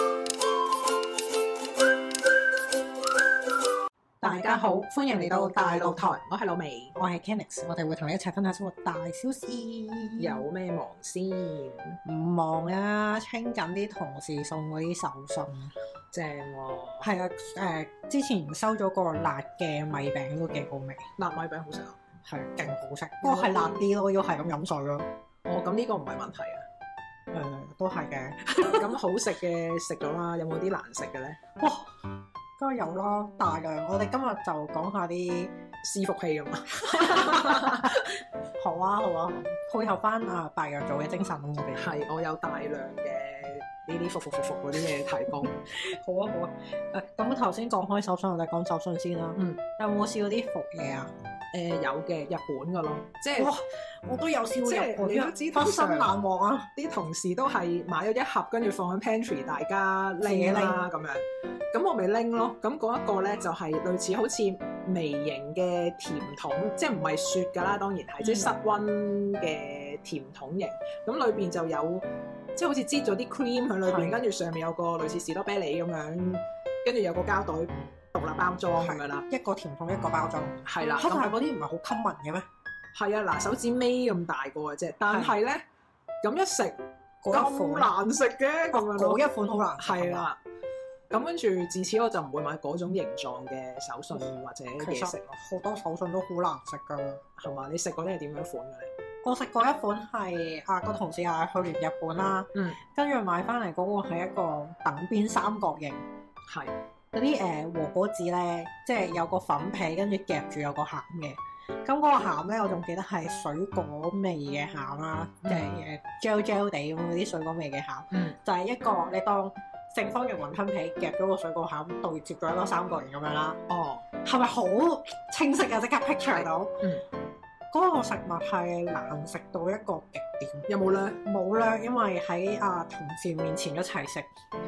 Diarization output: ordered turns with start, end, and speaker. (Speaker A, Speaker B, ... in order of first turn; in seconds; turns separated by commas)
Speaker A: 4.2-6.2, Speaker B: 4.2-7.0, Speaker A: 7.0-10.4, Speaker B: 10.2-12.0, Speaker A: 12.1-15.7, Speaker B: 16.1-17.1, Speaker A: 17.0-21.1, Speaker B: 21.2-22.0, Speaker A: 22.3-25.1, Speaker B: 23.2-23.9, Speaker B: 25.5-26.7, Speaker A: 27.3-28.9, Speaker B: 28.6-31.4, Speaker A: 31.6-31.9, Speaker A: 32.6-35.5, Speaker B: 35.8-38.1, Speaker A: 36.8-42.0, Speaker B: 41.8-45.5, Speaker A: 45.5-51.1, Speaker B: 51.5-53.5, Speaker A: 53.4-56.7, Speaker B: 54.6-56.1, Speaker B: 56.8-72.0, Speaker A: 60.2-60.8, Speaker A: 68.2-68.5, Speaker B: 72.6-79.2, Speaker A: 73.8-74.2, Speaker A: 78.8-82.5, Speaker B: 80.7-81.3, Speaker B: 83.0-85.6, Speaker A: 85.1-85.3, Speaker B: 86.2-86.8, Speaker A: 87.2-87.9, Speaker B: 87.3-89.2, Speaker A: 88.7-90.3, Speaker B: 89.8-90.4, Speaker B: 91.1-95.2, Speaker A: 94.8-97.2, Speaker B: 97.4-98.9, Speaker A: 99.2-106.0, Speaker B: 102.5-102.8, Speaker B: 106.5-106.7, Speaker A: 107.1-123.6, Speaker B: 115.4-115.7, Speaker B: 123.7-124.0, Speaker A: 124.2-126.8, Speaker B: 126.3-127.0, Speaker A: 127.7-134.3, Speaker B: 130.7-131.2